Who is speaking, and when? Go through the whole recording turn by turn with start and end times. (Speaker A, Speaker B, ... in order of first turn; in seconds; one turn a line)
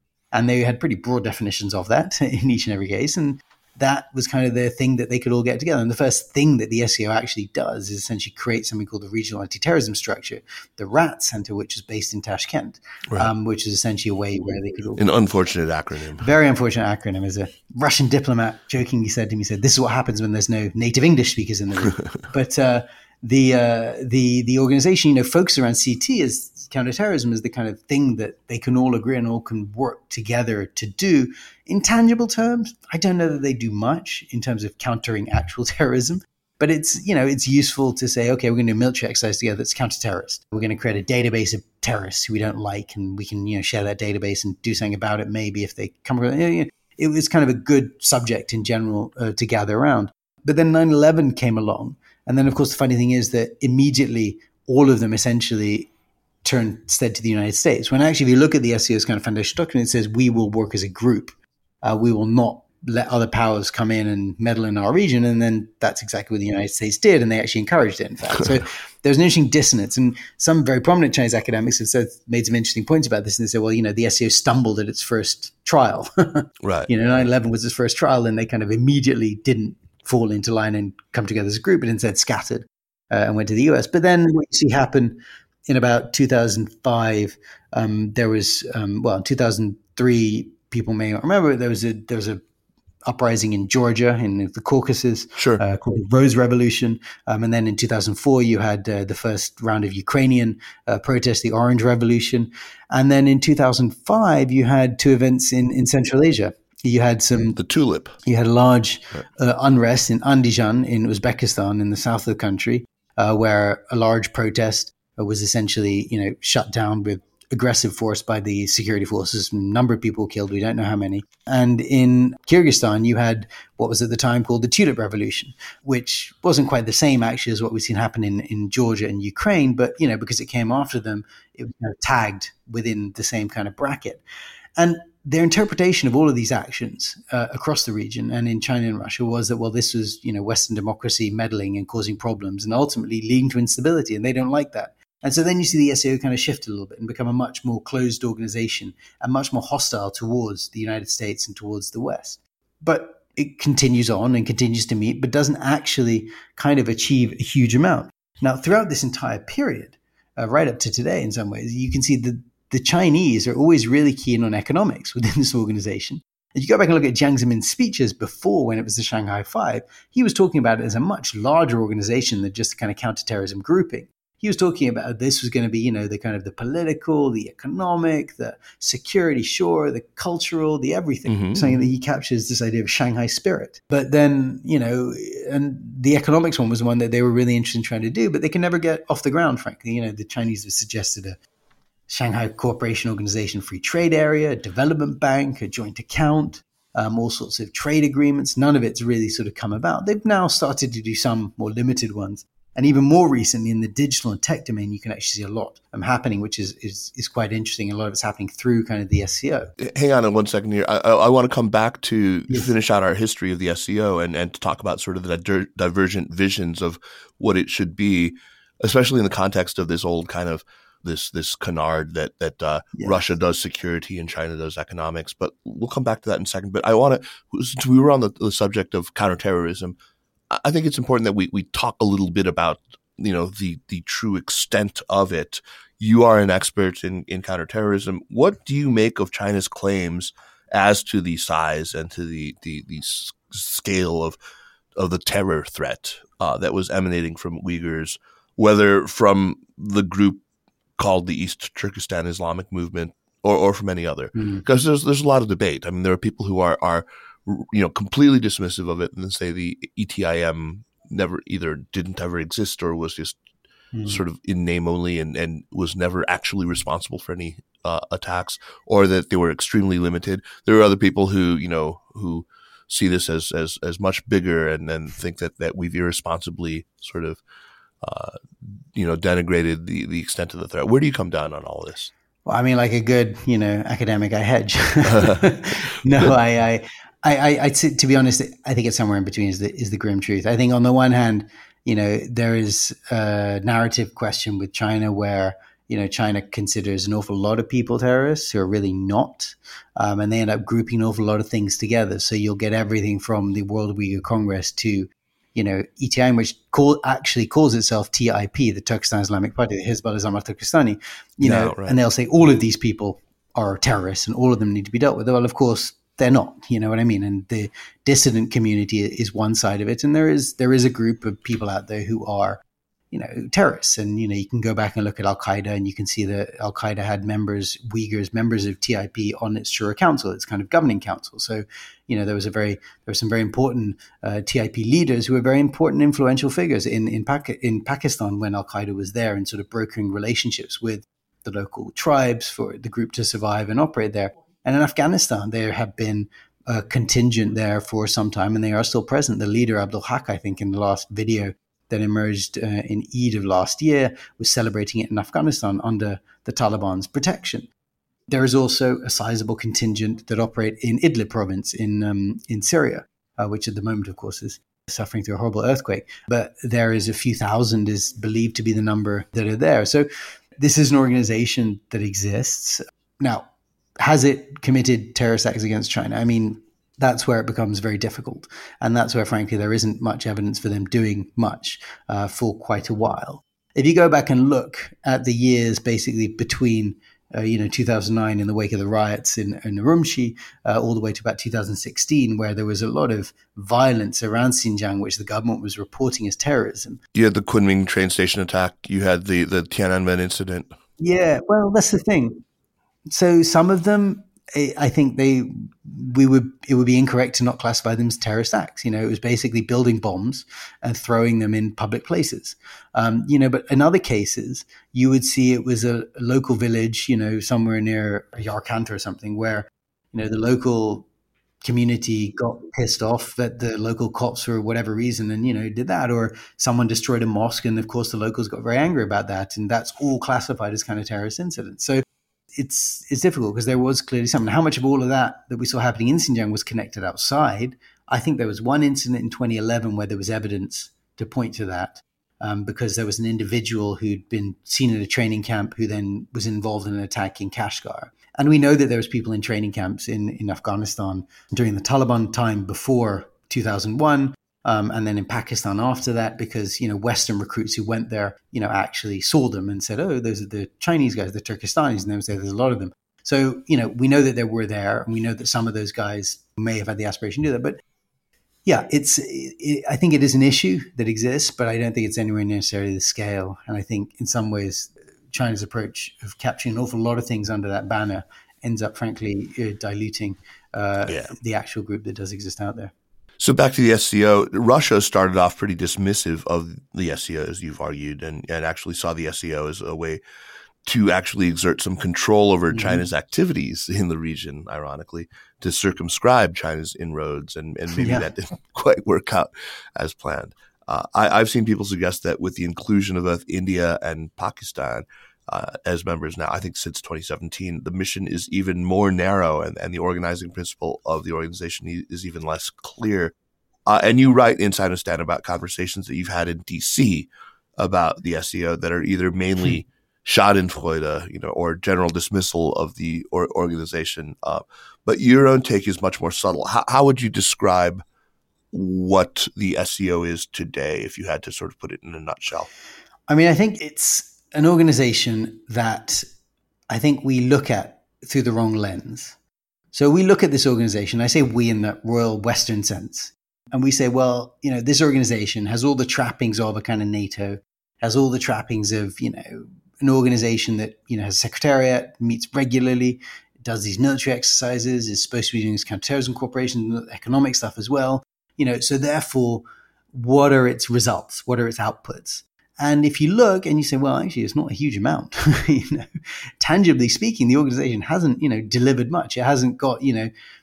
Speaker A: 0.3-15.0
Speaker B: 15.0-16.3
Speaker A: 16.2-55.9
Speaker A: 56.4-92.4
Speaker B: 76.6-76.9
Speaker A: 93.0-107.6
Speaker B: 95.4-95.6
Speaker B: 107.5-108.2
Speaker A: 108.2-134.2
Speaker A: 134.8-191.4
Speaker B: 181.3-181.8
Speaker A: 192.1-209.7
Speaker B: 209.8-229.9
Speaker A: 212.5-212.7
Speaker A: 223.0-223.2
Speaker B: 230.5-244.4
Speaker B: 244.9-250.4
Speaker B: 251.0-263.4
Speaker A: 254.3-254.6
Speaker A: 263.9-264.2
Speaker B: 264.1-277.4
Speaker B: 278.0-278.4
Speaker B: 278.9-282.1
Speaker A: 282.4-357.7
Speaker B: 285.1-285.4
Speaker B: 311.4-312.0
Speaker A: 358.3-370.1
Speaker A: 370.6-373.5
Speaker A: 374.0-397.0
Speaker B: 397.1-400.7
Speaker A: 401.0-402.4
Speaker A: 403.1-421.1
Speaker A: 421.6-432.0
Speaker A: 432.6-467.8
Speaker A: 468.6-482.9
Speaker B: 481.1-481.3
Speaker B: 483.4-490.2
Speaker B: 490.9-513.3
Speaker A: 492.7-493.1
Speaker A: 497.9-498.3
Speaker B: 513.9-528.0
Speaker B: 528.7-532.7
Speaker A: 533.3-536.2
Speaker A: 536.9-539.4
Speaker A: 539.9-566.1
Speaker A: 566.6-570.3